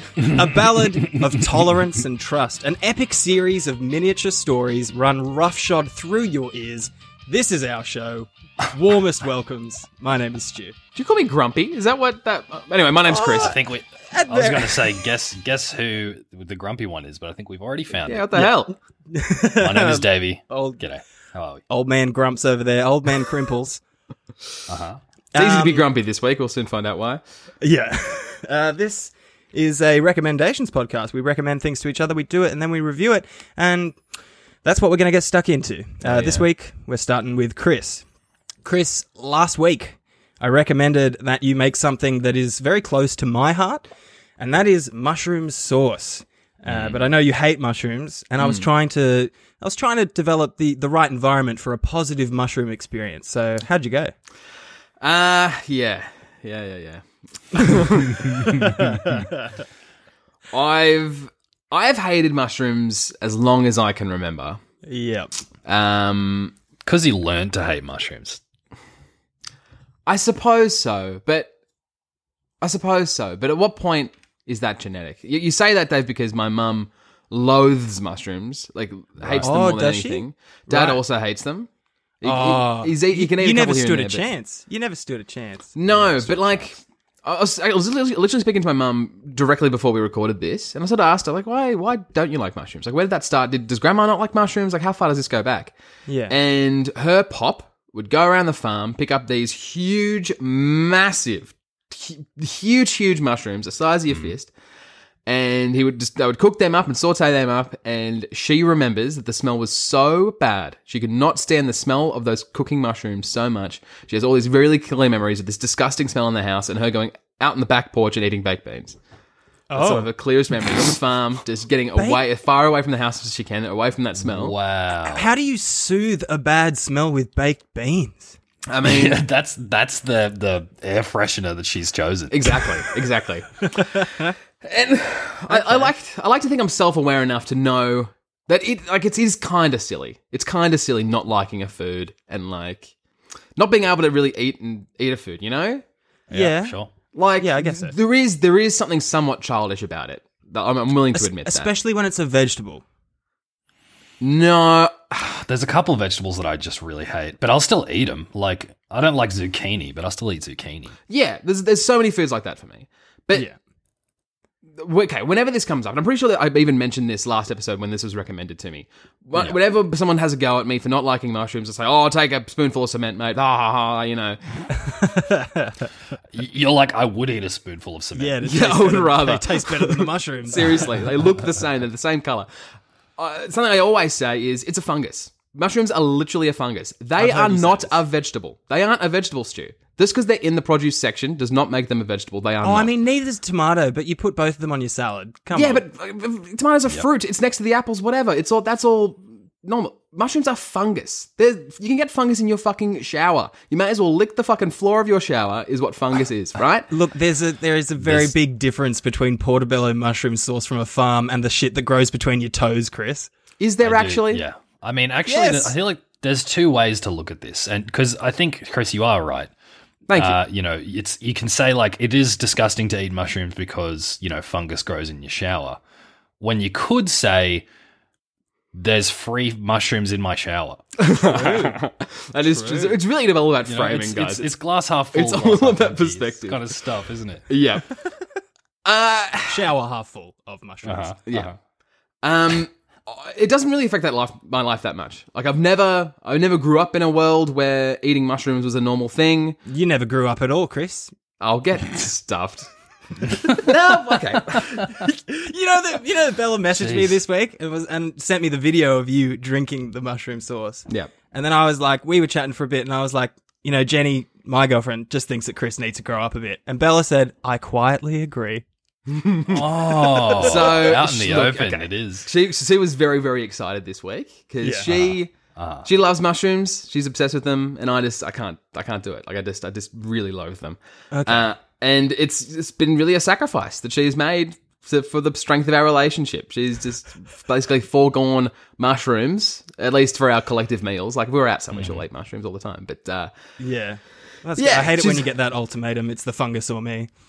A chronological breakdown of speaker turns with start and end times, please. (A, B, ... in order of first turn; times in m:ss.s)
0:00.2-0:10.8 A
0:00.4-0:01.3 B
0:10.9-0:13.6 C
0:13.1-0:13.6 A
0:13.1-0:18.5 B
0:14.1-0:15.0 A
0:18.0-0:18.7 C
0:19.1-0:20.8 A
0:19.4-0:21.6 B
0:21.7-0:23.8 A
0:24.7-0:25.0 B
0:25.3-0:25.9 A
0:25.3-0:27.2 C
0:27.6-0:34.0 A
0:34.6-0:38.0 A
0:36.0-0:36.5 C
0:38.6-0:43.8 A
0:44.4-0:54.1 A
0:46.7-0:47.1 B
0:48.4-0:48.7 C
0:55.0-0:59.1 C
0:58.7-0:59.4 A
1:00.5-1:04.6 C
1:04.8-1:05.3 A
1:05.6-1:06.5 C
1:06.8-1:08.4 B
1:10.0-1:11.5 C
1:12.6-1:21.7 C
1:19.2-1:19.5 B
1:19.4-1:21.0 A
1:22.2-1:24.2 C
1:22.2-1:25.7 A
1:25.7-1:35.7 C
1:25.9-1:26.7 B
1:36.1-1:36.3 A
1:36.3-1:44.5 C
1:45.2-1:59.0 C
1:59.7-2:00.1 A
1:59.7-2:04.6 C
2:01.9-2:02.2 A
2:04.2-2:05.3 B
2:05.0-2:08.4 A
2:08.7-2:09.2 C
2:08.8-2:12.8 B
2:12.3-2:22.9 C
2:15.5-2:15.9 A
2:23.6-2:25.8 C
2:26.3-2:26.9 B
2:26.3-2:26.8 A
2:27.1-2:31.7 C
2:27.4-2:28.0 A
2:31.1-2:32.8 A
2:34.2-2:35.2 C
2:35.2-2:40.9 B
2:41.1-2:43.5 C
2:44.8-2:54.4 C
2:55.0-2:55.8 A
2:56.3-2:58.4 B
2:58.2-3:00.9 A
2:58.4-3:02.5 C
3:03.2-3:12.9 C
3:07.2-3:08.0 A
3:12.6-3:15.8 A
3:15.5-3:26.9 C
3:26.9-3:33.3 A
3:28.0-3:28.3 B
3:33.6-3:34.4 C
3:33.8-3:39.5 B
3:35.3-3:35.7 A
3:40.1-3:40.4 C
3:40.1-3:45.8 B
3:46.4-3:47.6 B
3:48.7-3:50.8 B
3:51.0-3:54.5 C
3:51.2-3:51.8 A
3:52.4-3:53.0 A
3:53.6-3:57.5 B
3:55.1-3:56.7 C
3:57.5-3:58.0 C
3:58.8-3:59.7 C
3:59.5-4:01.2 A
4:00.8-4:01.5 B
4:01.3-4:01.5 C
4:02.2-4:09.6 C
4:09.7-4:11.1 A
4:11.4-4:12.7 C
4:13.4-4:14.9 C
4:15.0-4:28.6 A
4:16.7-4:17.2 B
4:29.1-4:29.7 C
4:29.5-4:32.2 B
4:30.1-4:30.6 A
4:30.3-4:35.3 C
4:34.6-4:34.9 A
4:34.9-4:35.9 B
4:35.8-4:53.3 C
4:41.1-4:41.5 A
4:51.7-4:52.0 B
4:53.6-4:57.1 A
4:54.6-4:55.3 C